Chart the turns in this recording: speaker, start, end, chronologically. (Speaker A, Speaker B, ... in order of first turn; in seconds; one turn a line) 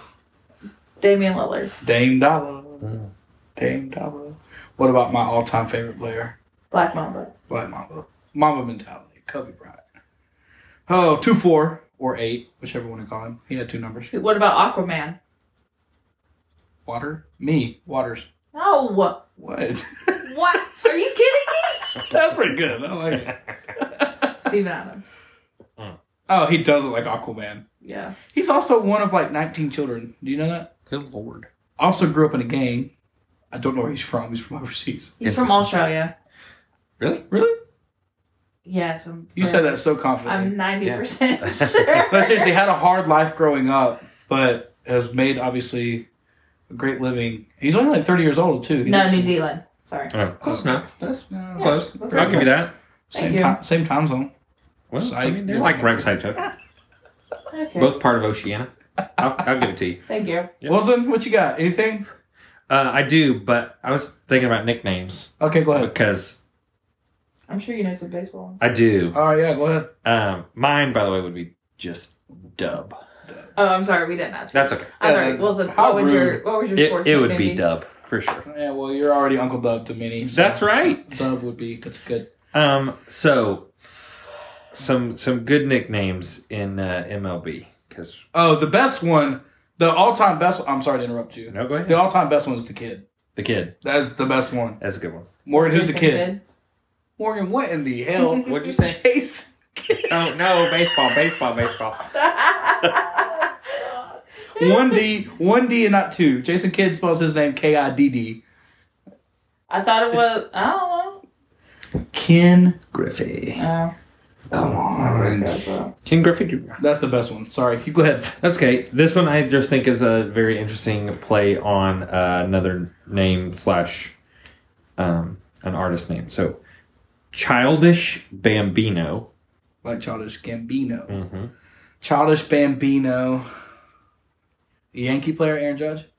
Speaker A: 1.0-1.7
Speaker B: 1.8-2.9
Speaker C: 2.8-3.1
Speaker B: 3.5-6.3
Speaker A: 6.7-7.3
Speaker B: 7.5-9.8
Speaker B: 10.9-14.1
Speaker A: 14.1-15.2
Speaker B: 16.9-18.3
Speaker A: 18.5-19.2
Speaker B: 19.4-20.3
Speaker A: 20.2-21.9
Speaker B: 21.9-24.3
Speaker A: 24.4-25.0
Speaker B: 26.3-27.6
Speaker A: 27.8-28.1
Speaker B: 28.3-30.7
Speaker C: 30.9-31.5
Speaker B: 31.8-32.9
Speaker B: 33.5-35.2
Speaker A: 35.2-36.1
Speaker C: 35.2-35.9
Speaker C: 37.0-37.3
Speaker B: 37.3-37.6
Speaker A: 38.6-42.5
Speaker B: 39.3-40.5
Speaker C: 40.8-41.9
Speaker B: 42.0-46.1
Speaker B: 46.7-49.3
Speaker A: 48.9-50.1
Speaker C: 50.1-52.7
Speaker B: 50.4-50.7
Speaker B: 51.3-54.3
Speaker A: 51.6-52.5
Speaker A: 53.1-53.6
Speaker C: 54.9-56.5
Speaker B: 55.0-56.0
Speaker A: 57.5-57.9
Speaker C: 57.8-60.0
Speaker A: 60.1-60.5
Speaker B: 60.6-62.1
Speaker C: 62.7-66.4
Speaker B: 65.4-65.9
Speaker A: 67.5-68.6
Speaker C: 68.6-69.2
Speaker B: 69.1-69.9
Speaker C: 70.0-73.0
Speaker A: 73.5-77.6
Speaker C: 74.5-74.9
Speaker B: 75.0-76.4
Speaker C: 76.8-78.5
Speaker B: 78.5-82.3
Speaker C: 80.2-81.3
Speaker C: 82.5-83.7
Speaker C: 84.7-88.2
Speaker B: 88.3-93.0
Speaker C: 91.5-92.0
Speaker C: 93.3-93.8
Speaker B: 93.8-94.8
Speaker C: 94.8-95.3
Speaker B: 95.4-96.3
Speaker A: 95.5-96.4
Speaker B: 97.2-100.8
Speaker C: 98.4-99.0
Speaker C: 100.1-102.2
Speaker A: 102.1-105.0
Speaker C: 102.8-103.1
Speaker B: 104.5-108.4
Speaker A: 109.7-111.2
Speaker B: 112.1-113.5
Speaker C: 112.9-113.5
Speaker A: 113.5-113.9
Speaker B: 114.5-115.5
Speaker C: 114.5-114.8
Speaker A: 114.8-115.9
Speaker C: 116.0-116.8
Speaker B: 116.8-118.3
Speaker C: 118.2-124.1
Speaker C: 125.0-126.6
Speaker C: 127.3-129.3
Speaker B: 129.8-131.2
Speaker C: 131.1-131.5
Speaker B: 132.0-133.5
Speaker B: 134.9-136.1